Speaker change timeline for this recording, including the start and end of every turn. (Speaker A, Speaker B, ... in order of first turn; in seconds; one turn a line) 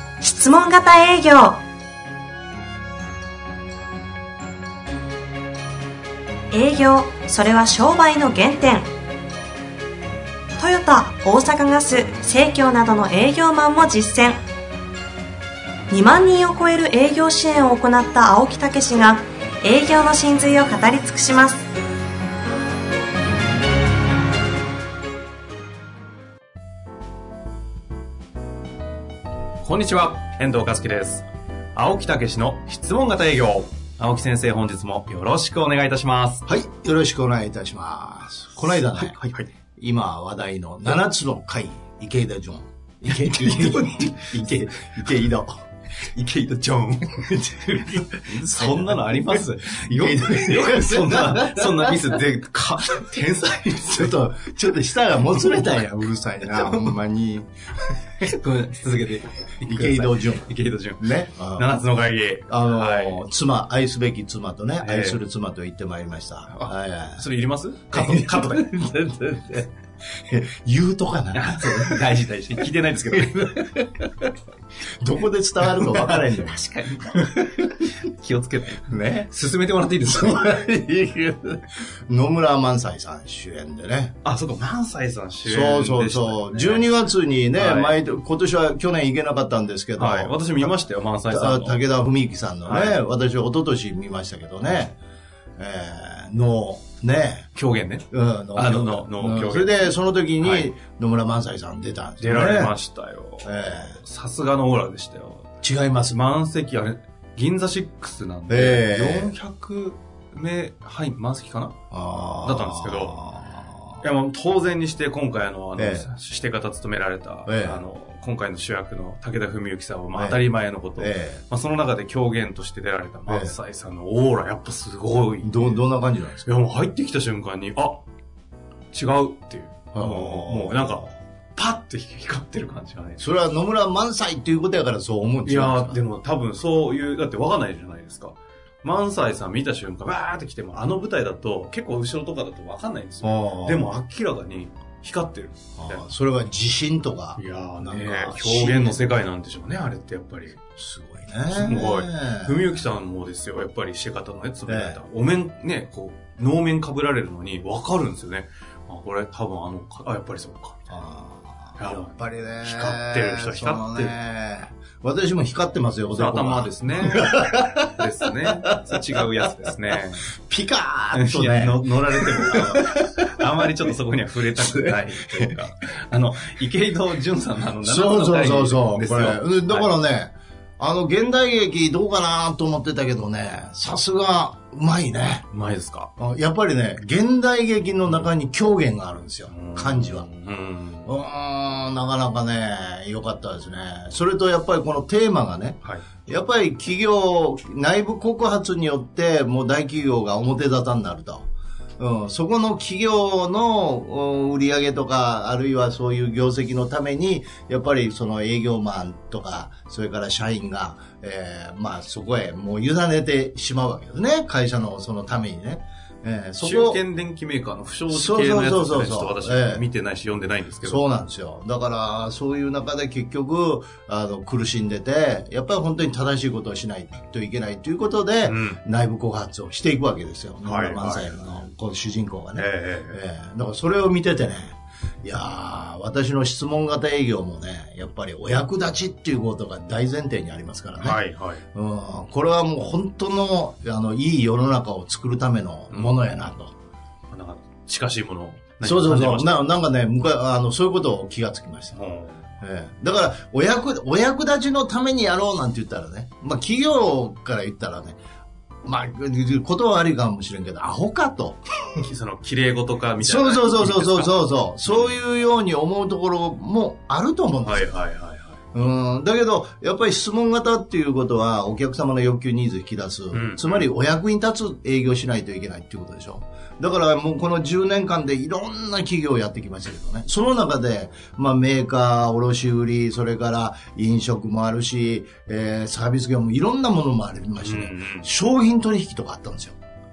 Speaker A: 0.2-1.6
Speaker A: 6.5-8.9
Speaker A: 10.6-14.4
Speaker A: 15.9-21.6
Speaker B: 29.6-36.4
Speaker C: 36.5-45.5
Speaker B: 38.6-39.5
Speaker B: 43.0-45.2
Speaker B: 46.0-54.2
Speaker C: 48.4-52.2
Speaker C: 53.9-57.5
Speaker B: 55.3-55.8
Speaker B: 56.4-57.0
Speaker B: 58.2-63.2
Speaker C: 59.6-61.7
Speaker C: 62.5-67.2
Speaker B: 64.8-65.2
Speaker B: 66.5-68.7
Speaker C: 67.9-72.1
Speaker B: 71.3-73.8
Speaker C: 73.1-74.1
Speaker C: 75.0-76.6
Speaker B: 75.6-80.6
Speaker C: 78.9-79.3
Speaker C: 80.0-84.2
Speaker B: 84.2-86.9
Speaker C: 85.4-90.7
Speaker B: 87.5-88.0
Speaker B: 90.0-91.8
Speaker C: 91.3-95.0
Speaker B: 92.7-93.0
Speaker C: 95.6-97.5
Speaker B: 97.5-100.7
Speaker C: 98.1-102.7
Speaker B: 102.2-105.5
Speaker C: 103.4-104.0
Speaker C: 105.6-106.2
Speaker B: 106.0-111.8
Speaker C: 108.5-109.3
Speaker C: 111.9-114.0
Speaker B: 112.4-113.2
Speaker B: 114.0-125.6
Speaker C: 115.8-116.1
Speaker C: 117.5-117.8
Speaker C: 120.1-120.4
Speaker C: 121.0-121.4
Speaker C: 123.3-123.5
Speaker C: 125.4-126.5
Speaker B: 126.4-128.0
Speaker B: 128.9-133.3
Speaker C: 129.9-131.0
Speaker C: 133.2-136.0
Speaker B: 135.4-146.1
Speaker C: 143.2-143.9
Speaker C: 145.8-149.0
Speaker B: 147.3-150.6
Speaker C: 150.8-152.6
Speaker B: 151.5-160.8
Speaker C: 154.7-155.0
Speaker C: 160.9-169.0
Speaker B: 161.8-164.2
Speaker B: 166.1-170.3
Speaker C: 170.5-173.3
Speaker B: 171.1-179.9
Speaker C: 174.6-175.5
Speaker C: 177.8-185.4
Speaker B: 185.5-186.1
Speaker C: 186.2-190.2
Speaker B: 189.5-191.2
Speaker C: 191.1-201.4
Speaker B: 195.8-196.1
Speaker C: 202.0-217.0
Speaker B: 216.6-221.1
Speaker C: 218.1-219.8
Speaker C: 220.8-241.2
Speaker B: 228.4-228.8
Speaker B: 230.6-231.6
Speaker B: 232.6-233.2
Speaker B: 241.0-241.6
Speaker C: 241.7-246.7
Speaker B: 245.9-246.2
Speaker B: 247.3-249.6
Speaker C: 248.8-252.0
Speaker B: 251.9-252.4
Speaker C: 252.6-258.2
Speaker C: 258.8-261.6
Speaker B: 262.0-265.1
Speaker C: 263.2-267.9
Speaker B: 267.6-268.6
Speaker C: 268.7-289.8
Speaker B: 273.3-273.9
Speaker B: 287.6-288.3